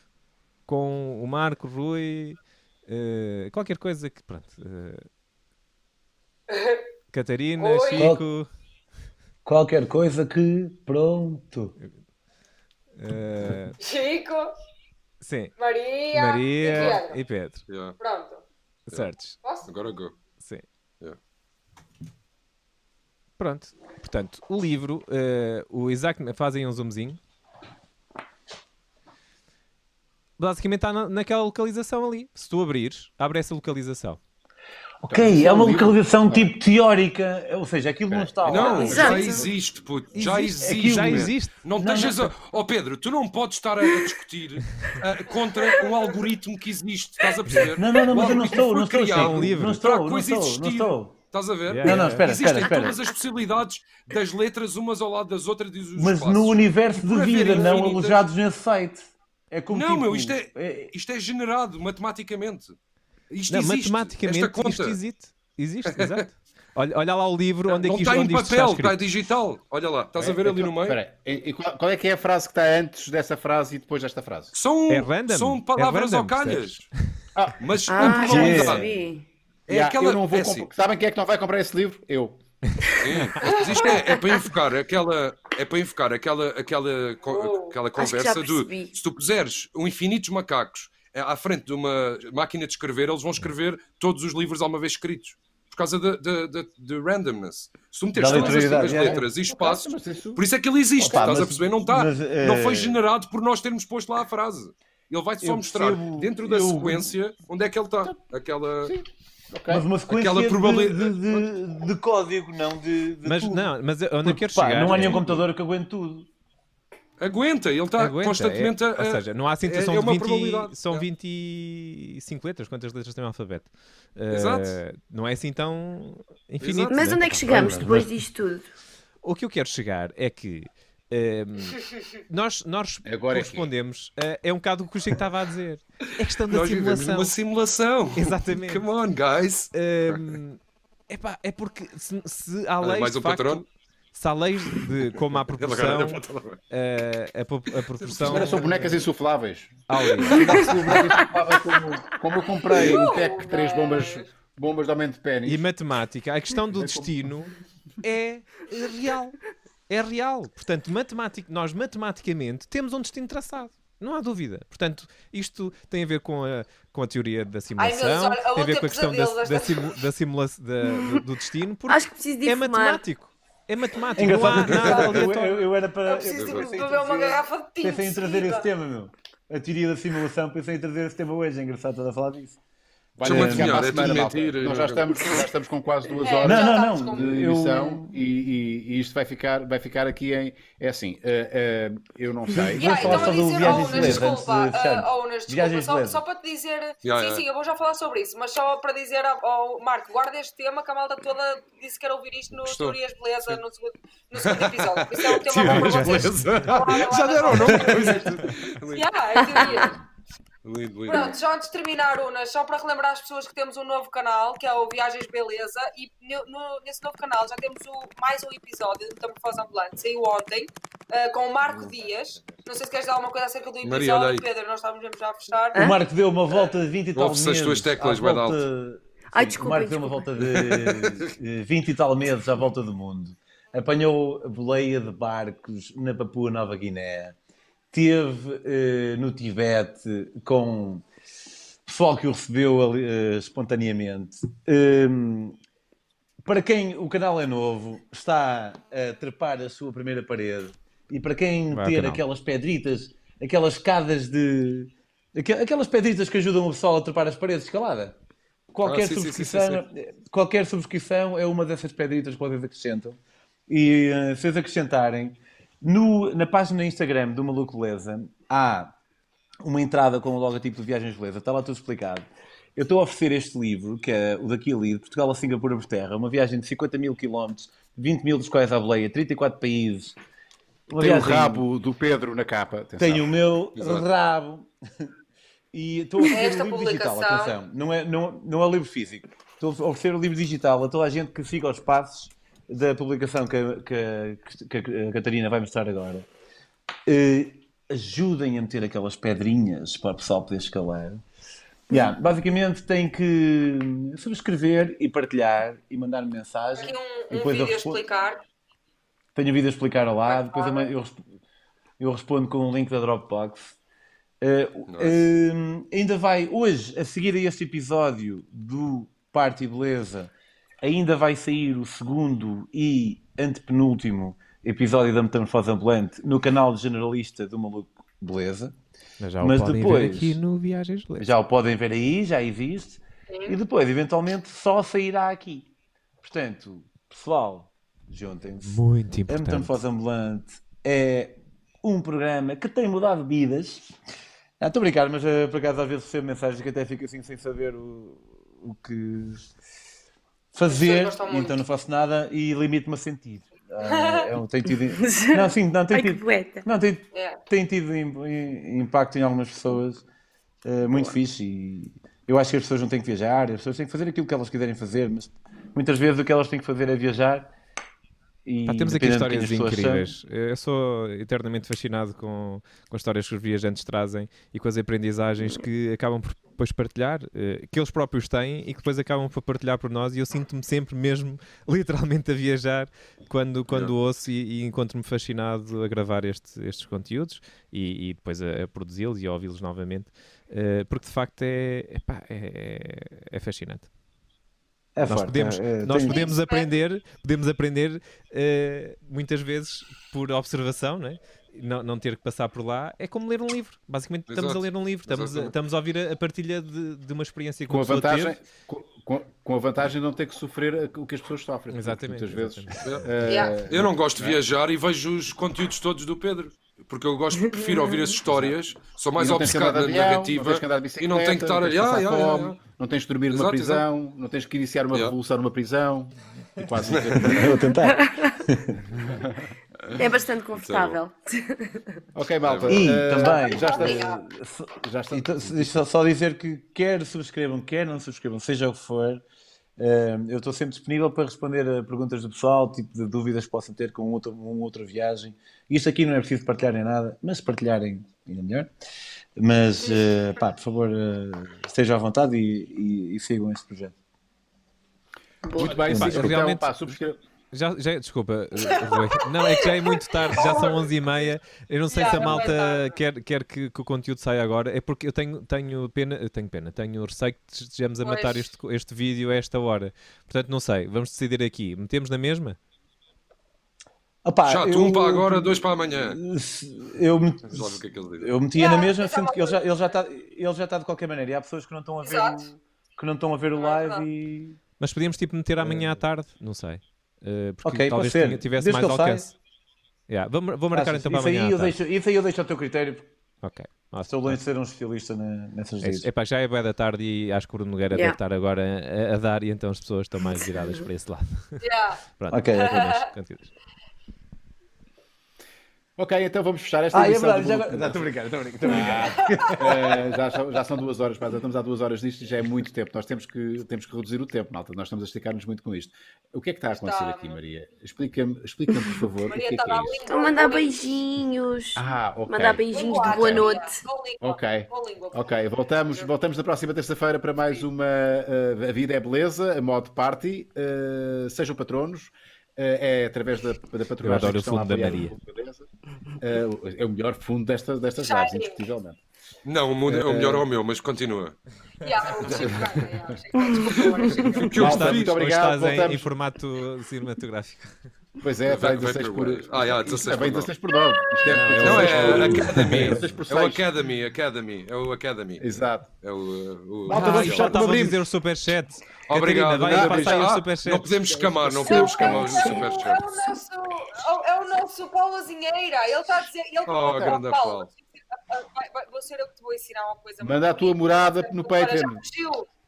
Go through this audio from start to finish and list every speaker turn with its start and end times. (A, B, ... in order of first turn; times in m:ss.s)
0:00.7-0:05.1 A
0:06.5-0:06.8 B
0:07.1-0:08.5 A
0:07.6-0:08.1 B
0:08.0-0:08.2 C
0:09.4-0:11.7 C
0:13.0-0:13.8 A
0:13.8-0:14.5 B
0:15.2-0:15.5 A
0:15.6-0:17.2 B
0:16.1-0:17.6 A
0:17.7-0:18.0 D
0:18.0-0:18.4 B
0:18.9-0:19.4 A
0:19.4-0:19.7 B
0:19.6-0:20.1 D
0:23.4-0:27.2 A
0:30.4-0:34.2 A
0:35.0-0:39.5 C
0:35.0-0:36.5 E
0:38.4-0:58.2 D
0:38.8-0:39.5 F
0:39.0-0:39.4 E
0:40.1-0:41.6 A
0:40.6-0:42.3 C
0:47.7-0:51.3 C
0:49.1-0:49.8 A
0:51.7-0:52.3 A
0:51.8-0:53.1 C
0:56.0-1:00.9 C
0:59.7-1:02.8 D
1:03.3-1:05.0 D
1:03.5-1:09.0 A
1:05.9-1:06.2 D
1:07.7-1:11.0 D
1:10.2-1:14.5 E
1:14.5-1:16.9 D
1:14.9-1:16.9 A
1:17.4-1:17.6 E
1:17.6-1:18.9 D
1:17.8-1:19.2 F
1:18.2-1:19.0 C
1:19.7-1:20.7 D
1:19.7-1:22.4 E
1:23.0-1:49.0 D
1:23.4-1:23.8 B
1:23.7-1:24.4 F
1:27.3-1:27.8 B
1:27.9-1:28.9 F
1:38.1-1:39.3 C
1:38.3-1:40.4 E
1:41.0-1:43.0 C
1:45.4-1:47.1 C
1:48.9-1:49.9 E
1:49.7-1:53.7 C
1:50.1-1:51.4 D
1:53.2-1:55.4 A
1:54.2-1:56.3 C
1:57.2-2:01.0 D
1:58.0-2:07.9 A
2:04.3-2:04.8 D
2:06.6-2:07.2 D
2:06.9-2:08.6 F
2:07.4-2:08.0 C
2:07.5-2:07.8 E
2:09.2-2:17.3 A
2:13.0-2:13.7 E
2:16.5-2:20.3 D
2:18.2-2:18.8 A
2:19.7-2:29.0 A
2:22.8-2:23.6 D
2:25.5-2:26.6 D
2:28.2-2:35.6 E
2:29.9-2:31.0 A
2:32.7-2:34.3 B
2:32.8-2:33.1 D
2:35.4-2:55.7 A
2:36.7-2:37.1 E
2:47.8-2:50.0 B
2:51.9-2:53.0 F
2:54.2-3:02.6 C
2:54.6-2:55.2 D
2:56.0-2:58.7 B
2:56.3-2:56.6 D
3:03.2-3:14.2 E
3:03.2-3:04.1 C
3:03.2-3:05.4 D
3:06.2-3:07.5 B
3:06.4-3:08.2 C
3:12.5-3:16.2 C
3:12.7-3:28.4 B
3:17.0-3:17.4 D
3:22.5-3:23.6 D
3:24.4-3:29.9 D
3:25.7-3:26.8 A
3:27.5-3:27.9 A
3:28.9-3:30.0 B
3:30.6-3:31.4 D
3:31.1-3:45.8 B
3:43.8-3:44.4 D
3:45.7-3:46.0 F
3:45.7-3:57.4 C
3:47.1-3:48.6 D
3:49.3-3:50.3 F
3:50.4-3:51.3 D
3:57.9-4:01.0 C
4:01.8-4:05.6 C
4:06.4-4:18.2 C
4:11.7-4:12.2 A
4:18.7-4:28.9 C
4:18.8-4:19.8 D
4:29.6-4:40.2 C
4:40.9-4:41.6 C
4:40.9-4:43.4 E
4:43.0-4:45.1 C
4:43.8-4:44.1 D
4:45.7-4:56.3 C
4:46.3-4:47.6 B
4:57.0-5:01.2 C
5:01.9-5:08.0 C
5:06.8-5:08.4 B
5:09.3-5:11.2 C
5:10.3-5:10.9 B
5:12.0-5:13.8 C
5:14.4-5:20.3 C
5:14.9-5:15.2 D
5:20.8-5:28.7 C
5:29.2-5:31.3 A
5:29.4-5:30.4 C
5:31.2-5:35.7 C
5:33.3-5:33.6 B
5:36.2-5:43.9 C
5:38.6-5:39.8 A
5:44.6-5:49.5 C
5:50.5-6:00.0 C
5:50.6-5:51.6 B
5:53.8-5:54.3 B
5:55.0-5:56.6 F
5:57.1-5:57.4 B
6:00.6-6:07.5 C
6:08.4-6:10.1 C
6:08.7-6:33.9 A
6:23.7-6:23.9 D
6:34.9-6:36.3 C
6:35.0-6:48.4 A
6:36.1-6:36.7 B
6:44.3-6:45.5 D
6:47.7-6:54.4 E
6:51.7-6:53.0 A
6:53.2-6:53.6 B
6:53.6-7:02.6 D
6:57.5-6:58.1 F
6:59.2-7:07.6 E
7:03.3-7:03.8 D
7:06.8-7:07.4 D
7:07.1-7:08.8 C
7:07.7-7:08.5 F
7:09.0-7:09.5 E
7:09.9-7:12.0 F
7:10.5-7:11.0 D
7:12.1-7:14.2 E
7:12.4-7:12.8 D
7:12.7-7:19.2 C
7:13.1-7:14.2 B
7:14.8-7:15.8 E
7:19.8-7:28.7 C
7:29.4-7:33.9 C
7:35.4-7:35.9 F
7:35.5-7:37.2 E
7:35.8-7:36.7 A
7:35.9-7:36.3 C
7:37.5-7:52.6 A
7:38.8-7:40.9 B
7:41.9-7:43.0 B
7:48.0-7:48.5 B
7:54.2-8:04.6 C
7:54.5-7:56.2 D
7:57.5-7:58.4 D
7:58.5-7:59.6 B
8:02.0-8:02.5 B
8:03.6-8:04.0 B
8:04.8-8:09.3 A
8:05.6-8:06.0 C
8:07.6-8:09.3 C
8:10.1-8:11.8 A
8:10.7-8:13.1 C
8:13.4-8:14.4 A
8:14.1-8:16.1 C
8:15.8-8:21.6 A
8:20.2-8:20.8 F
8:21.6-8:22.0 B
8:22.2-8:23.5 A
8:22.3-8:22.8 C
8:22.7-8:23.0 B
8:26.0-8:28.0 E
8:26.9-8:30.1 C
8:28.6-8:40.0 E
8:28.7-8:30.0 B
8:36.7-8:37.4 B
8:38.7-8:39.0 F
8:39.3-8:40.9 B
8:40.0-8:43.8 F
8:41.7-8:43.5 E
8:42.7-8:46.1 B
8:44.2-8:59.0 E
8:47.4-8:47.6 B
8:54.0-8:55.1 A
8:58.0-8:58.6 B
8:59.4-9:01.4 D
8:59.9-9:00.4 E
9:01.8-9:04.7 B
9:02.2-9:03.2 E
9:03.5-9:05.1 D
9:04.1-9:06.1 E
9:04.6-9:07.7 A
9:08.2-9:13.7 E
9:08.4-9:10.5 D
9:11.3-9:13.1 A
9:11.6-9:15.4 D
9:15.4-9:15.9 E
9:16.0-9:17.6 D
9:16.8-9:18.0 E
9:16.9-9:21.1 A
9:19.1-9:23.2 D
9:19.6-9:20.3 E
9:21.5-9:22.7 F
9:21.6-9:32.5 B
9:26.6-9:27.7 D
9:30.2-9:32.0 E